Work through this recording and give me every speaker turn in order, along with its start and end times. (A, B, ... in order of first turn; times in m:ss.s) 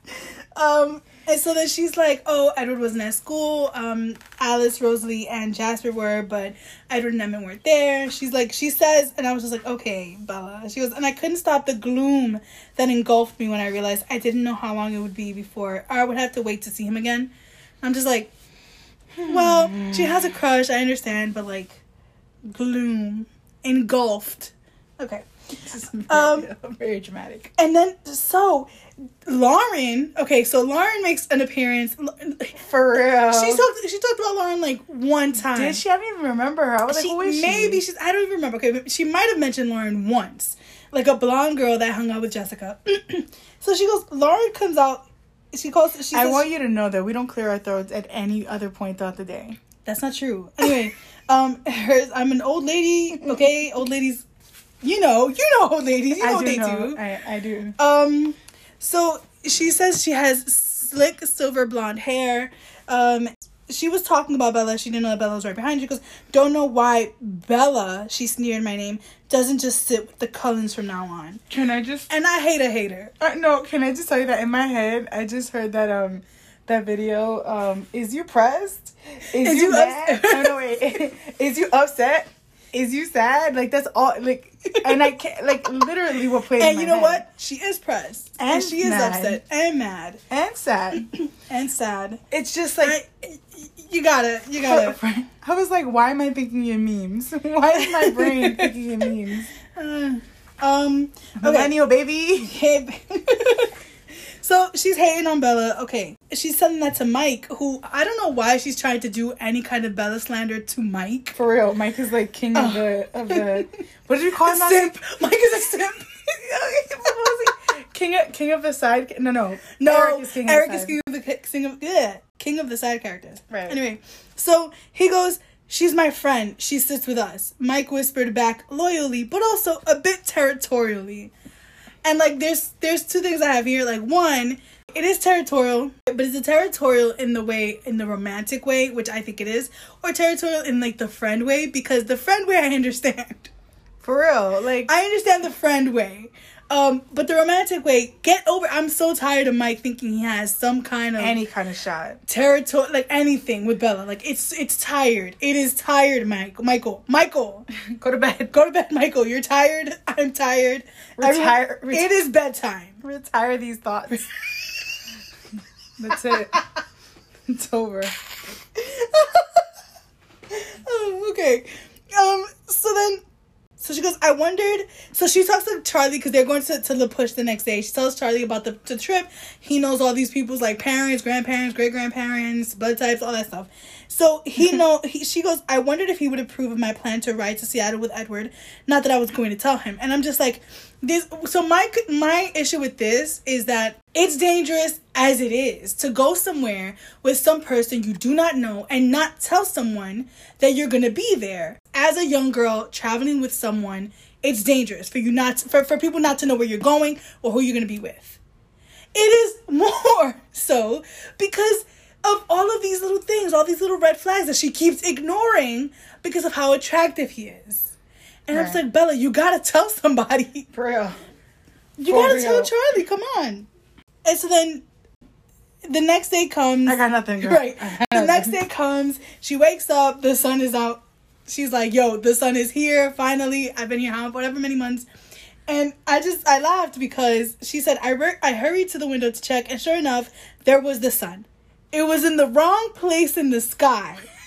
0:00.5-0:17.3 A
0:17.8-0:18.3 A
0:19.2-0:20.4 B
0:19.2-0:21.8 A
0:22.5-0:26.5 A
0:25.7-0:27.5 B
0:27.6-0:28.7 A
0:29.2-0:35.8 A
0:32.6-0:33.6 B
0:35.4-0:37.8 B
0:36.9-0:46.5 A
0:46.1-0:49.6 B
0:49.8-0:54.2 A
0:53.2-0:53.4 B
0:54.8-0:57.0 A
0:56.2-0:57.8 B
0:57.8-1:11.4 A
1:11.5-1:12.1 B
1:12.1-1:13.1 A
1:13.2-1:27.2 B
1:19.4-1:20.6 A
1:24.7-1:25.1 A
1:26.5-1:30.2 A
1:28.5-1:29.4 B
1:30.3-1:31.1 B
1:30.9-1:32.2 A
1:32.3-1:33.0 B
1:32.8-1:35.0 A
1:34.6-1:39.5 B
1:37.7-1:38.7 A
1:39.7-1:41.7 A
1:41.4-1:42.5 B
1:42.4-1:43.7 A
1:44.4-1:51.3 A
1:51.3-1:54.9 B
1:52.5-1:53.7 A
1:54.4-1:56.3 A
1:56.3-2:00.9 B
1:59.8-2:11.3 A
2:03.5-2:03.8 B
2:12.0-2:23.5 A
2:24.0-2:24.9 B
2:24.9-2:31.4 A
2:31.2-2:32.2 B
2:32.2-2:43.0 A
2:41.2-2:42.1 B
2:43.0-2:44.3 B
2:46.0-2:46.6 B
2:47.5-2:48.1 B
2:48.9-2:49.6 A
2:50.5-2:53.2 A
2:53.8-3:28.4 A
3:29.1-3:37.9 A
3:38.5-3:40.7 A
3:38.5-3:38.8 B
3:40.7-3:41.2 B
3:42.0-3:42.7 B
3:42.0-3:43.7 A
3:44.2-3:44.8 A
3:45.8-3:55.0 A
3:46.8-3:48.6 B
3:55.7-4:04.2 A